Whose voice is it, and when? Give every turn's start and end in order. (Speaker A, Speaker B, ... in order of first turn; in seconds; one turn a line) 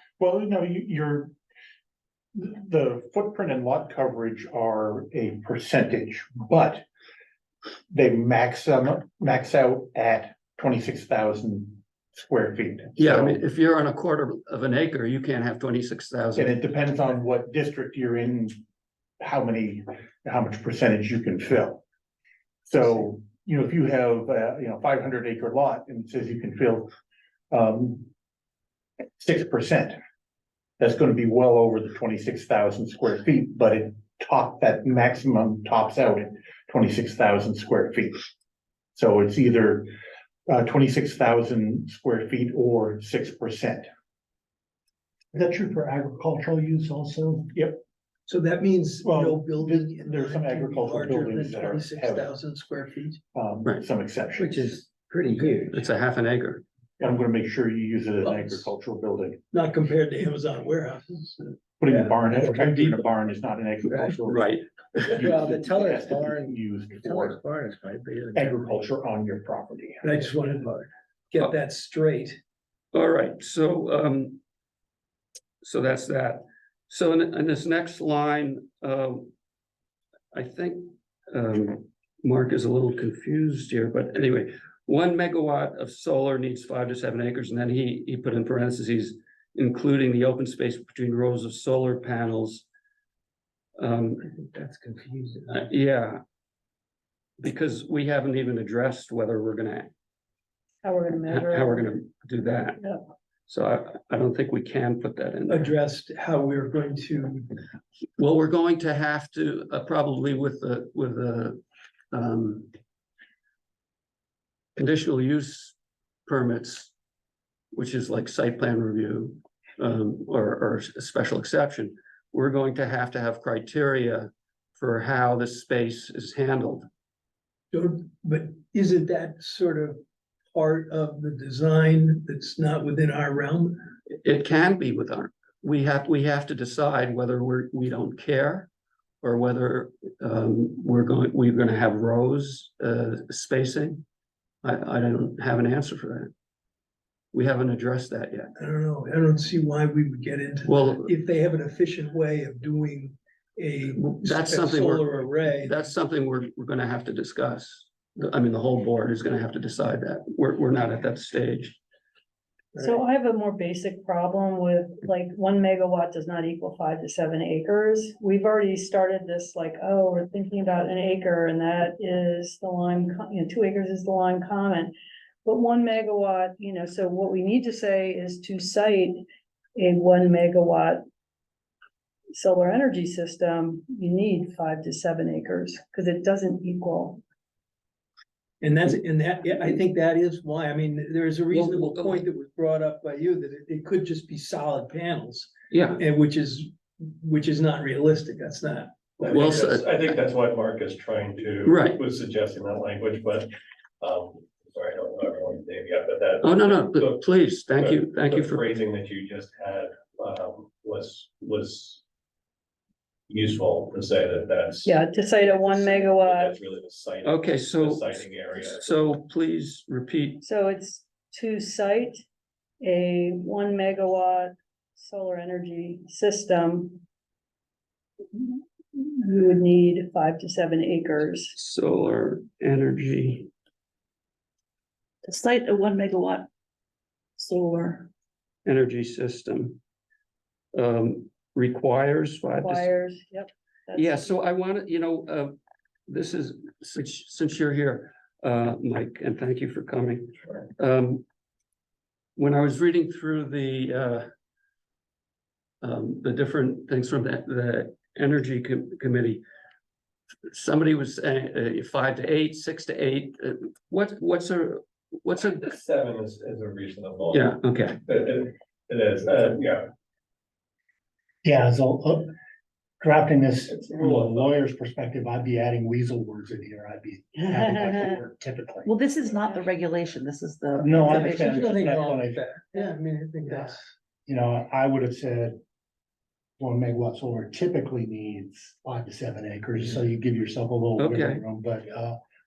Speaker A: 0.2-1.3
Speaker A: 2.3-6.8
Speaker A: 7.9-13.4
Speaker B: 13.0-16.6
Speaker A: 16.4-18.6
Speaker A: 19.2-21.8
Speaker A: 22.6-26.9
Speaker A: 27.5-28.1
Speaker A: 29.2-30.0
Speaker A: 30.8-38.2
Speaker A: 38.9-39.9
Speaker A: 40.5-43.9
Speaker C: 45.3-47.5
Speaker A: 47.5-47.8
Speaker D: 48.3-53.2
Speaker A: 49.0-52.3
Speaker A: 53.3-54.8
Speaker E: 54.4-55.8
Speaker B: 55.7-56.6
Speaker A: 57.0-59.4
Speaker D: 58.2-58.7
Speaker D: 59.5-63.0
Speaker A: 61.8-67.4
Speaker B: 64.3-64.6
Speaker E: 65.1-68.8
Speaker A: 68.3-70.1
Speaker D: 70.0-72.4
Speaker B: 72.9-74.4
Speaker B: 75.6-79.3
Speaker B: 80.3-92.6
Speaker B: 93.8-94.2
Speaker E: 94.3-95.7
Speaker B: 95.5-96.2
Speaker B: 97.4-99.9
Speaker F: 100.8-101.9
Speaker B: 101.3-102.9
Speaker B: 103.5-105.7
Speaker D: 105.5-107.6
Speaker B: 108.2-111.6
Speaker B: 112.1-112.7
Speaker B: 114.8-115.8
Speaker B: 116.3-116.9
Speaker B: 117.7-126.8
Speaker D: 127.7-130.0
Speaker D: 130.5-133.9
Speaker B: 134.1-138.7
Speaker B: 139.2-144.0
Speaker B: 144.6-146.3
Speaker B: 147.3-148.5
Speaker D: 148.6-155.9
Speaker B: 150.7-151.1
Speaker B: 154.0-161.8
Speaker F: 162.8-174.9
Speaker F: 175.4-179.2
Speaker F: 179.8-181.0
Speaker F: 182.3-187.2
Speaker D: 188.6-198.9
Speaker B: 191.5-192.2
Speaker B: 195.7-196.0
Speaker G: 199.2-212.0
Speaker B: 199.2-200.0
Speaker B: 201.6-202.0
Speaker B: 206.4-208.7
Speaker G: 213.3-219.1
Speaker F: 214.8-216.6
Speaker B: 217.2-220.4
Speaker F: 220.4-222.2
Speaker F: 222.8-227.0
Speaker F: 228.3-231.5
Speaker B: 231.5-233.5
Speaker H: 235.2-236.5
Speaker H: 237.4-238.1
Speaker B: 238.6-239.8
Speaker B: 240.7-242.9
Speaker F: 242.6-244.3
Speaker B: 243.9-245.5
Speaker B: 246.1-251.2
Speaker B: 252.4-254.2
Speaker B: 255.8-259.4
Speaker B: 260.5-265.7
Speaker G: 265.4-269.9
Speaker B: 267.3-268.0
Speaker C: 271.4-272.3
Speaker C: 273.0-278.9
Speaker G: 273.7-274.6
Speaker H: 278.8-281.9
Speaker C: 280.8-282.4
Speaker D: 281.0-283.9
Speaker C: 284.2-285.6
Speaker C: 286.6-292.1
Speaker B: 291.0-291.4